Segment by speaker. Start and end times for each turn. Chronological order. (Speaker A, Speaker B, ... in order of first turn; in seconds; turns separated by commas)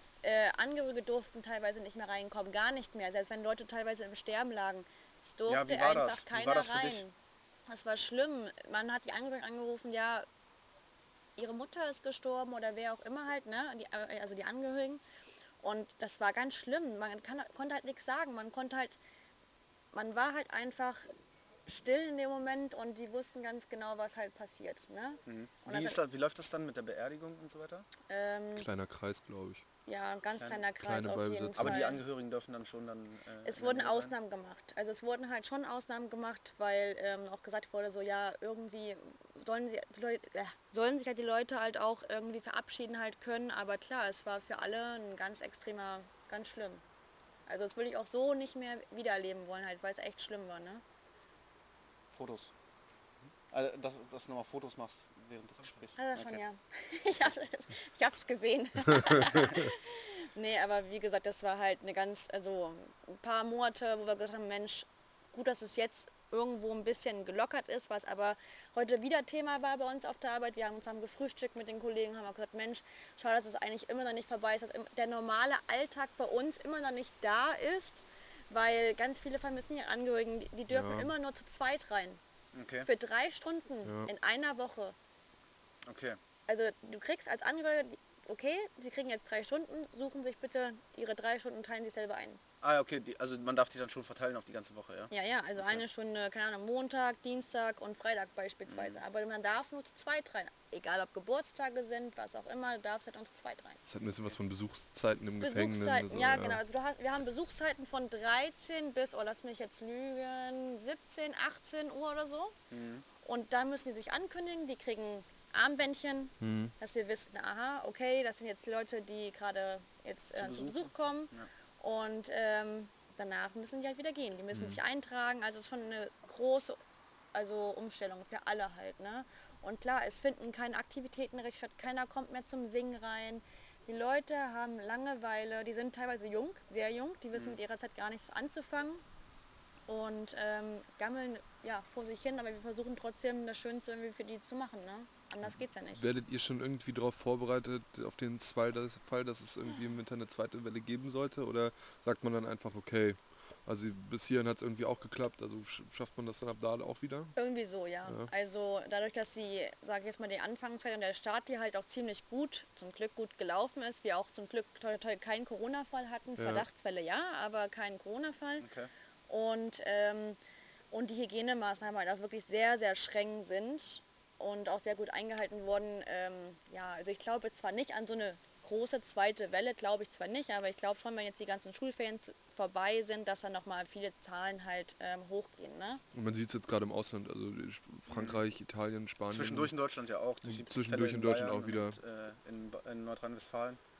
Speaker A: 0.2-7.1, Speaker B: 5.5-7.0, Speaker A: 7.7-10.3, Speaker A: 11.4-15.0, Speaker A: 15.6-19.0, Speaker A: 19.9-21.1, Speaker A: 21.7-26.0, Speaker B: 25.2-27.9, Speaker A: 28.1-28.7, Speaker C: 28.6-29.6, Speaker A: 29.9-32.0, Speaker B: 30.4-30.6, Speaker C: 30.8-31.9, Speaker B: 31.6-34.1, Speaker A: 33.4-46.8, Speaker A: 47.5-50.8, Speaker B: 52.1-52.5, Speaker B: 53.5-56.4, Speaker A: 56.0-82.2, Speaker C: 80.7-81.1, Speaker B: 82.5-82.9, Speaker A: 82.8-84.9, Speaker C: 83.8-84.1, Speaker B: 85.8-86.2, Speaker A: 86.5-92.4, Speaker B: 92.6-95.8, Speaker A: 95.1-103.8, Speaker B: 98.7-99.0, Speaker C: 103.9-106.6, Speaker A: 105.4-112.5, Speaker B: 112.7-113.0, Speaker A: 113.2-126.8, Speaker C: 116.4-116.7, Speaker B: 120.3-121.5, Speaker C: 124.5-124.8, Speaker A: 127.3-139.0, Speaker B: 137.3-137.6, Speaker A: 139.9-146.1, Speaker C: 145.9-157.3, Speaker A: 157.4-168.7, Speaker C: 166.4-166.7, Speaker B: 168.6-168.9, Speaker A: 169.3-170.4, Speaker A: 170.9-186.0, Speaker C: 186.1-189.7, Speaker B: 188.1-188.4, Speaker B: 189.3-193.8, Speaker C: 190.4-192.0